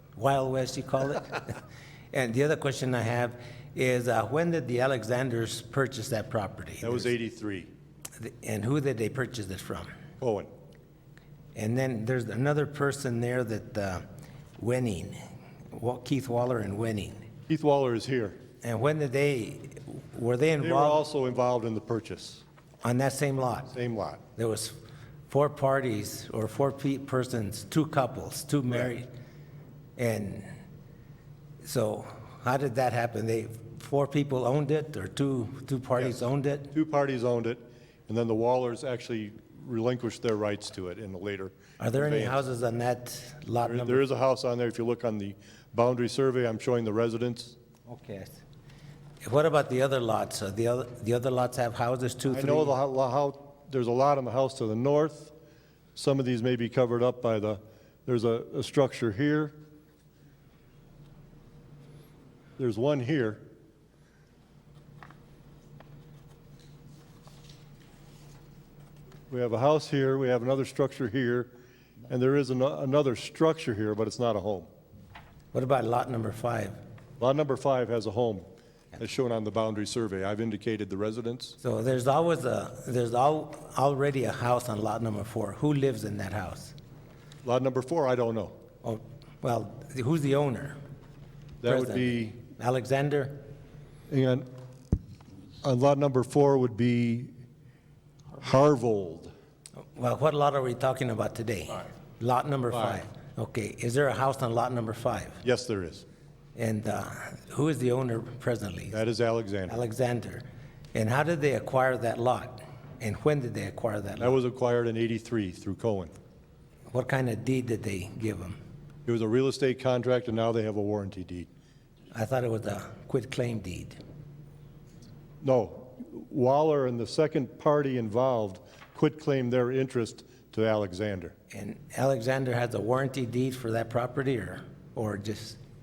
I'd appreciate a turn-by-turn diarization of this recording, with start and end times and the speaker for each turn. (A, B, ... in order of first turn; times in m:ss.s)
0:00.2-0:01.6 A
0:02.1-0:07.1 A
0:06.8-0:07.7 B
0:08.2-0:09.9 A
0:10.2-0:10.5 B
0:11.5-0:14.0 A
0:14.6-0:17.2 A
0:17.5-0:18.4 B
0:18.6-0:21.0 A
0:20.6-0:22.4 B
0:22.8-0:23.7 A
0:23.7-0:24.2 B
0:24.4-0:24.8 A
0:25.3-0:29.1 A
0:30.0-0:30.5 A
0:31.6-0:36.7 A
0:36.7-0:42.4 B
0:41.8-0:44.0 A
0:43.6-0:47.6 B
0:47.9-0:48.4 A
0:49.2-0:52.7 A
0:52.3-0:55.3 B
0:56.0-0:59.5 B
1:02.6-1:03.4 B
1:09.3-1:11.5 B
1:12.1-1:14.7 B
1:15.5-1:16.8 A
1:17.2-1:18.4 B
1:19.0-1:21.6 B
1:21.6-1:26.7 A
1:27.4-1:28.5 B
1:28.8-1:30.8 A
1:31.6-1:32.4 B
1:31.6-1:33.4 A
1:34.1-1:34.5 B
1:35.6-1:37.3 B
1:38.4-1:39.3 B
1:40.0-1:45.4 A
1:42.7-1:43.0 B
1:45.4-1:46.0 B
1:46.6-1:49.0 A
1:48.9-1:49.8 B
1:49.7-1:54.4 A
1:54.2-1:56.1 B
1:56.9-1:58.6 A
1:59.1-2:01.5 B
2:02.1-2:04.0 A
2:05.4-2:11.3 B
2:11.5-2:15.6 A